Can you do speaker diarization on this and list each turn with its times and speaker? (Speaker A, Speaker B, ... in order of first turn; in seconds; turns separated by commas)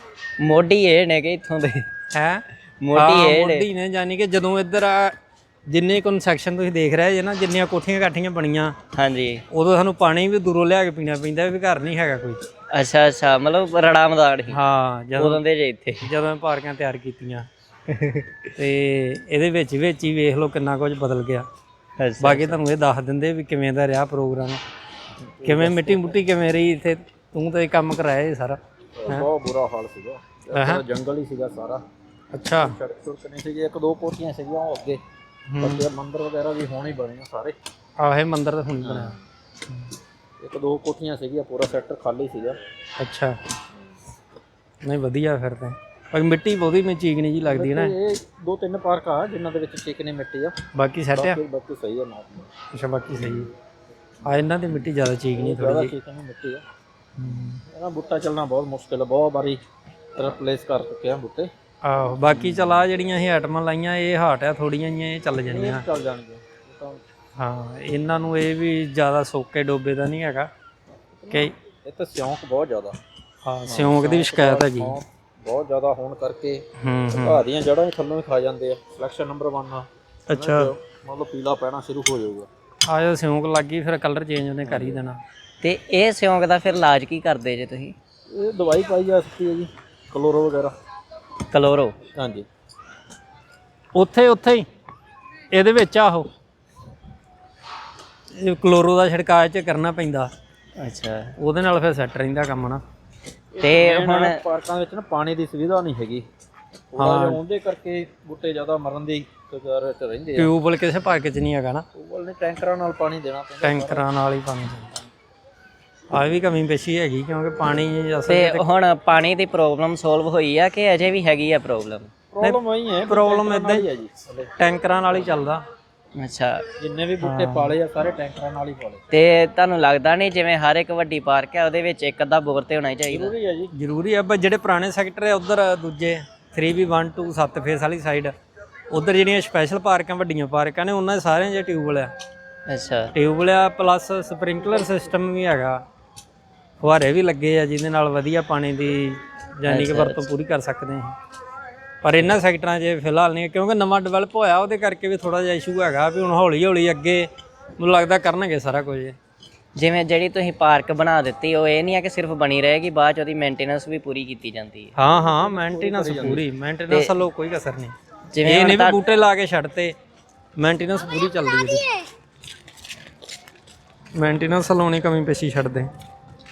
Speaker A: 0.4-1.9, Speaker B: 2.1-2.4, Speaker A: 2.8-3.7, Speaker B: 2.9-5.1, Speaker B: 5.7-8.7, Speaker A: 8.9-9.4, Speaker B: 9.5-12.4, Speaker A: 12.7-14.6, Speaker B: 14.5-15.4, Speaker A: 15.2-16.1, Speaker B: 16.0-17.4, Speaker A: 17.9-18.4, Speaker B: 18.6-21.4, Speaker A: 22.0-22.6, Speaker B: 22.2-24.6, Speaker C: 25.4-26.2, Speaker B: 25.4-29.3, Speaker C: 29.0-31.8, Speaker B: 30.5-30.8, Speaker B: 32.3-32.7, Speaker C: 32.6-35.0, Speaker B: 35.5-35.8, Speaker C: 35.6-37.5, Speaker B: 38.0-39.2, Speaker C: 40.4-42.6, Speaker B: 43.0-43.3, Speaker B: 44.8-47.9, Speaker C: 47.4-50.5, Speaker B: 50.7-51.4, Speaker C: 51.1-52.5, Speaker B: 52.7-53.5, Speaker B: 54.2-55.9, Speaker C: 55.4-56.6, Speaker B: 57.2-57.6, Speaker C: 57.7-59.6, Speaker C: 60.1-61.5, Speaker B: 61.8-65.9, Speaker C: 65.5-67.0, Speaker B: 67.4-70.5, Speaker C: 71.2-73.0, Speaker B: 73.4-75.0, Speaker C: 73.7-76.6, Speaker B: 76.8-77.4, Speaker C: 77.1-82.5, Speaker B: 80.3-80.7, Speaker B: 82.9-85.2, Speaker C: 84.6-85.0, Speaker A: 85.6-87.9, Speaker C: 88.3-90.7, Speaker A: 91.5-92.0, Speaker C: 92.1-92.5, Speaker B: 93.9-94.7, Speaker B: 95.5-96.3, Speaker B: 98.3-100.3, Speaker A: 100.8-101.3, Speaker B: 101.4-102.8, Speaker C: 103.5-106.2, Speaker A: 103.6-104.4, Speaker C: 106.9-110.5, Speaker B: 107.0-107.4, Speaker B: 110.3-111.8, Speaker C: 111.9-114.0, Speaker B: 113.6-115.0, Speaker B: 116.1-118.6, Speaker A: 118.3-122.1, Speaker C: 122.3-124.5, Speaker B: 122.4-123.9, Speaker B: 124.6-125.6, Speaker A: 126.2-126.6, Speaker C: 126.8-129.0, Speaker B: 127.2-127.7, Speaker A: 129.1-133.3, Speaker C: 133.1-133.7, Speaker B: 133.7-138.3, Speaker B: 138.9-142.1, Speaker A: 142.7-143.1, Speaker B: 143.1-145.8, Speaker B: 146.8-151.2, Speaker A: 149.7-150.2, Speaker B: 152.0-159.2, Speaker A: 159.8-164.9, Speaker B: 164.9-169.9, Speaker C: 165.2-166.4, Speaker A: 168.3-169.0, Speaker B: 170.6-171.8, Speaker B: 174.2-175.9